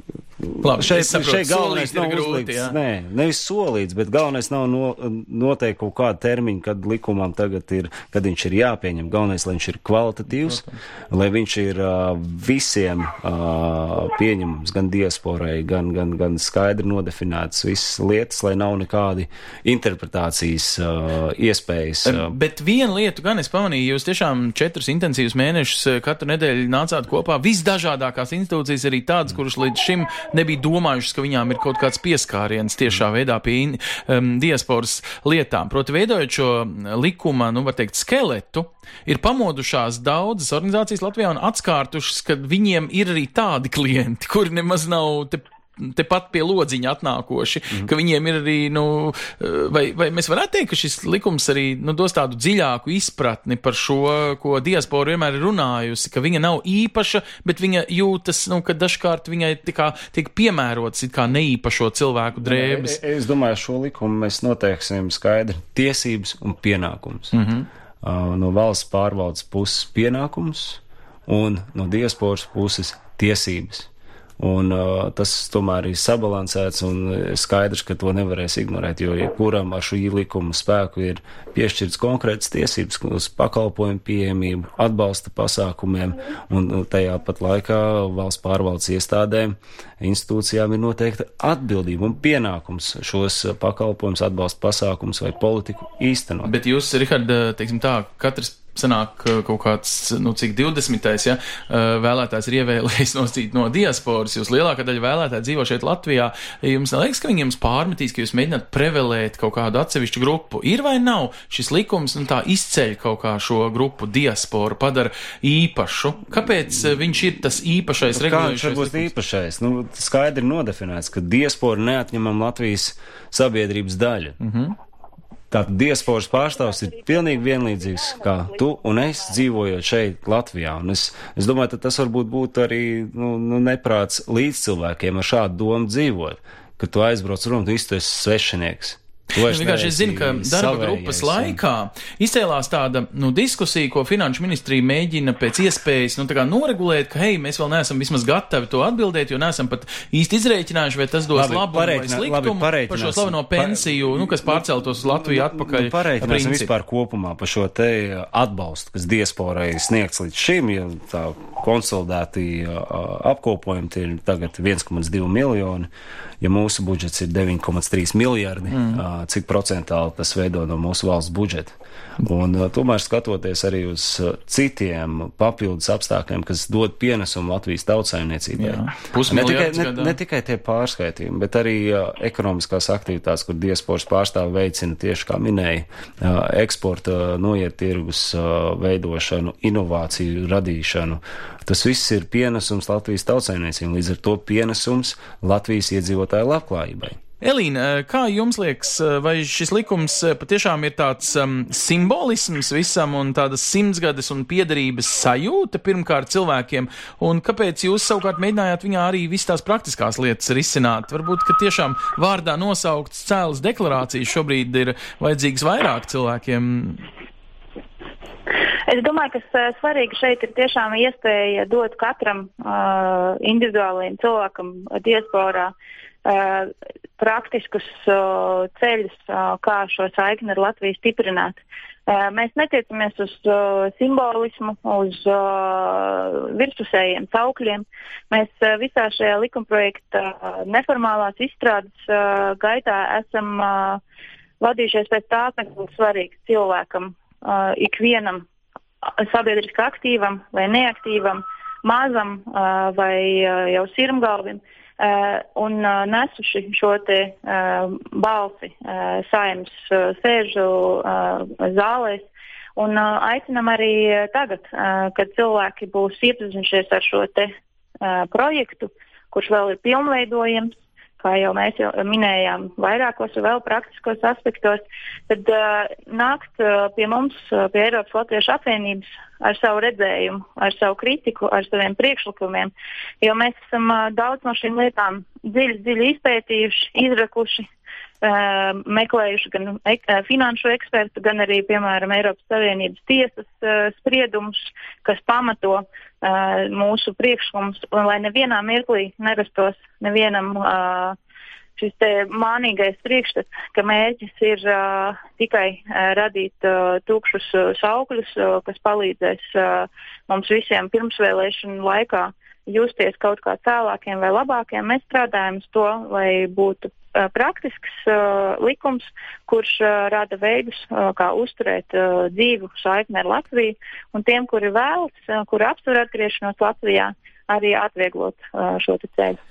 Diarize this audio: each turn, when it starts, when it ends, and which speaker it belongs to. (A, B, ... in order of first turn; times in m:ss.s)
0:00.4-0:22.3 A
0:00.6-0:02.7 B
0:22.0-1:03.0 B
1:02.4-1:07.4 A
1:07.3-1:07.7 B
1:08.0-1:36.5 A
1:36.4-1:59.1 B
1:58.1-2:04.4 A
2:04.4-2:04.7 B
2:05.5-2:21.6 A
2:19.4-2:36.7 B
2:31.3-2:45.9 A
2:46.4-3:17.2 A
2:48.7-2:49.0 B
2:58.6-3:00.2 B
3:17.4-3:37.0 B
3:38.9-3:45.7 C
3:46.2-4:04.0 C
4:04.6-4:08.4 C
4:09.0-4:47.7 C
4:48.2-5:01.2 C
5:01.8-5:29.4 C